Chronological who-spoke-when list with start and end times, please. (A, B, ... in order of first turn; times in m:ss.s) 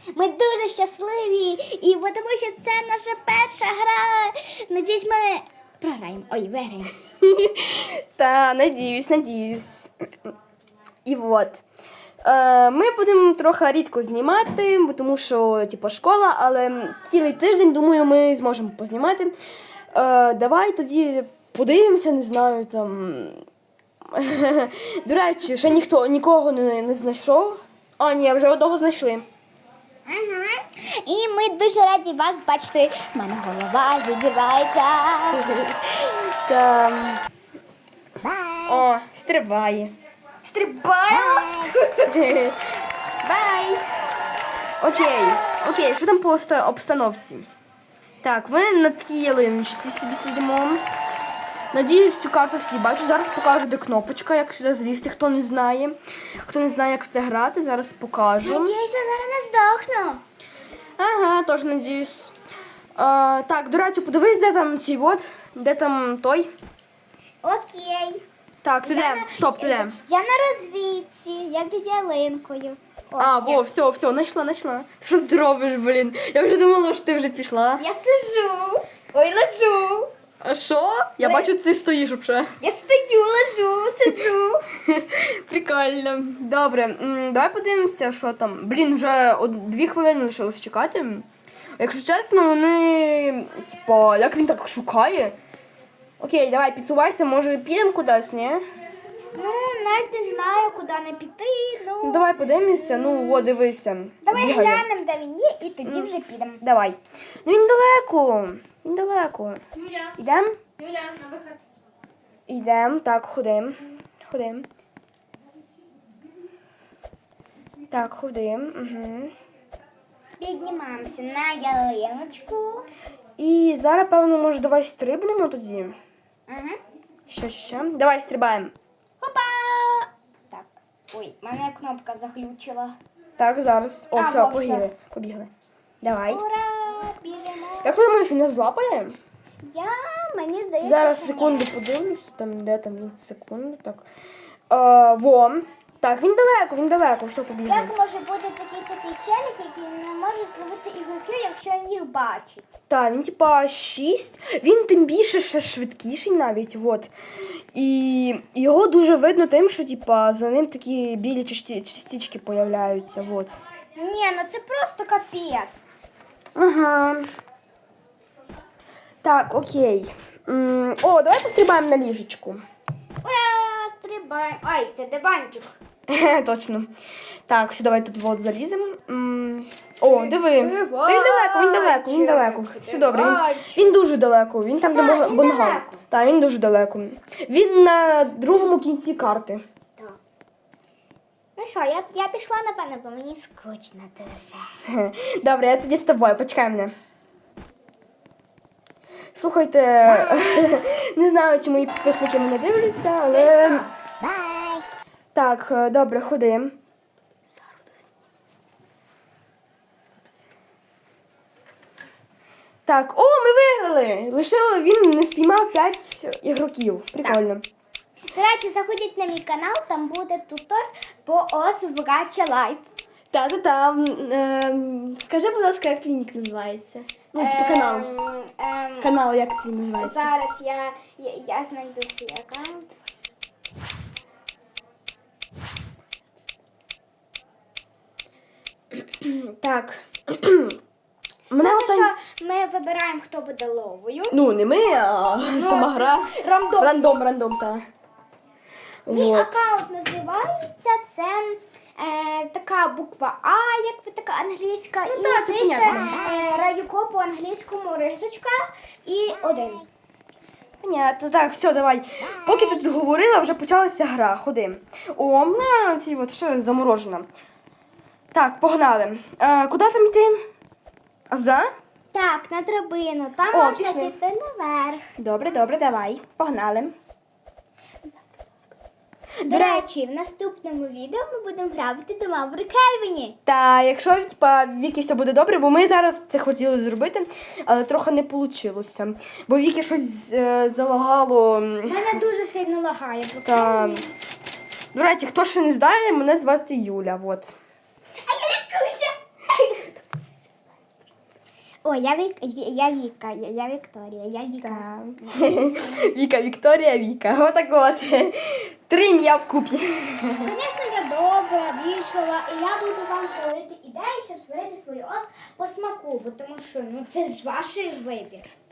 0:00.1-0:06.9 A
0:07.2-0:10.3 B
0:11.0-0:11.6 B
0:12.2-0:19.3 B
0:19.9-0:23.4 B
0:24.1-0:29.2 B
0:30.0-0:35.4 A
0:35.4-0:37.2 B
0:38.6-0:39.9 B
0:40.4-0:42.4 A
0:42.1-0:42.6 B
0:43.2-0:43.8 A
0:44.8-0:47.5 B
0:45.0-0:45.6 A
0:48.2-0:50.8 B
0:51.7-0:58.7 B
0:58.4-1:00.2 A
1:01.0-1:02.3 B
1:03.0-1:06.5 B
1:07.4-1:08.2 A
1:08.6-1:10.0 B
1:08.8-1:13.6 A
1:13.2-1:17.8 B
1:17.8-1:20.1 A
1:20.4-1:22.5 B
1:21.2-1:21.5 A
1:22.6-1:24.7 A
1:24.8-1:31.2 B
1:31.8-1:35.3 B
1:36.2-1:38.6 B
1:39.3-1:43.5 A
1:42.0-1:44.8 B
1:44.2-1:46.6 A
1:45.8-1:49.6 B
1:49.8-1:50.1 A
1:50.2-1:50.6 B
1:50.8-1:51.6 A
1:52.5-1:54.7 B
1:57.9-1:59.3 B
2:00.4-2:02.8 A
2:03.4-2:06.0 B
2:06.5-2:06.8 A
2:07.3-2:08.7 B
2:09.2-2:13.0 A
2:13.4-2:15.5 B
2:14.1-2:14.9 A
2:16.0-2:16.4 B
2:16.3-2:18.0 A
2:17.8-2:19.2 B
2:19.6-2:21.7 A
2:20.8-2:24.0 B
2:24.7-2:27.9 B
2:27.6-2:32.8 A
2:32.9-2:37.1 B
2:37.7-2:43.6 B
2:44.0-2:45.9 A
2:46.6-2:47.3 B
2:49.2-2:52.6 B
2:53.2-2:55.8 A
2:56.1-2:56.9 B
2:57.5-3:09.6 B
3:00.0-3:03.9 A
3:04.8-3:06.0 A
3:11.6-3:14.7 A
3:14.9-3:16.9 B
3:19.3-3:23.9 B
3:23.3-3:23.9 A
3:25.3-3:26.8 B
3:32.8-3:37.6 B
3:38.3-3:42.9 A
3:43.3-3:48.1 B
3:47.4-3:49.2 A
3:49.0-3:50.3 B
3:50.0-3:52.9 A
3:58.9-4:00.8 B
4:01.5-4:02.1 B
4:01.6-4:04.4 A
4:04.3-4:07.8 B
4:05.4-4:07.2 A
4:09.0-4:09.6 B
4:09.1-4:19.9 A
4:15.0-4:16.2 B
4:20.8-4:27.3 B
4:28.3-4:30.4 B
4:31.3-4:31.7 B
4:32.1-4:35.0 A
4:33.5-4:34.1 B
4:35.2-4:36.9 B
4:39.4-4:39.8 B
4:39.4-4:43.4 A
4:43.4-4:52.2 B
4:51.9-4:54.1 A
4:53.4-4:54.1 B
4:54.9-4:57.5 B
4:58.2-5:00.0 A
5:01.8-5:05.9 A
5:04.6-5:10.5 B
5:10.4-5:18.5 A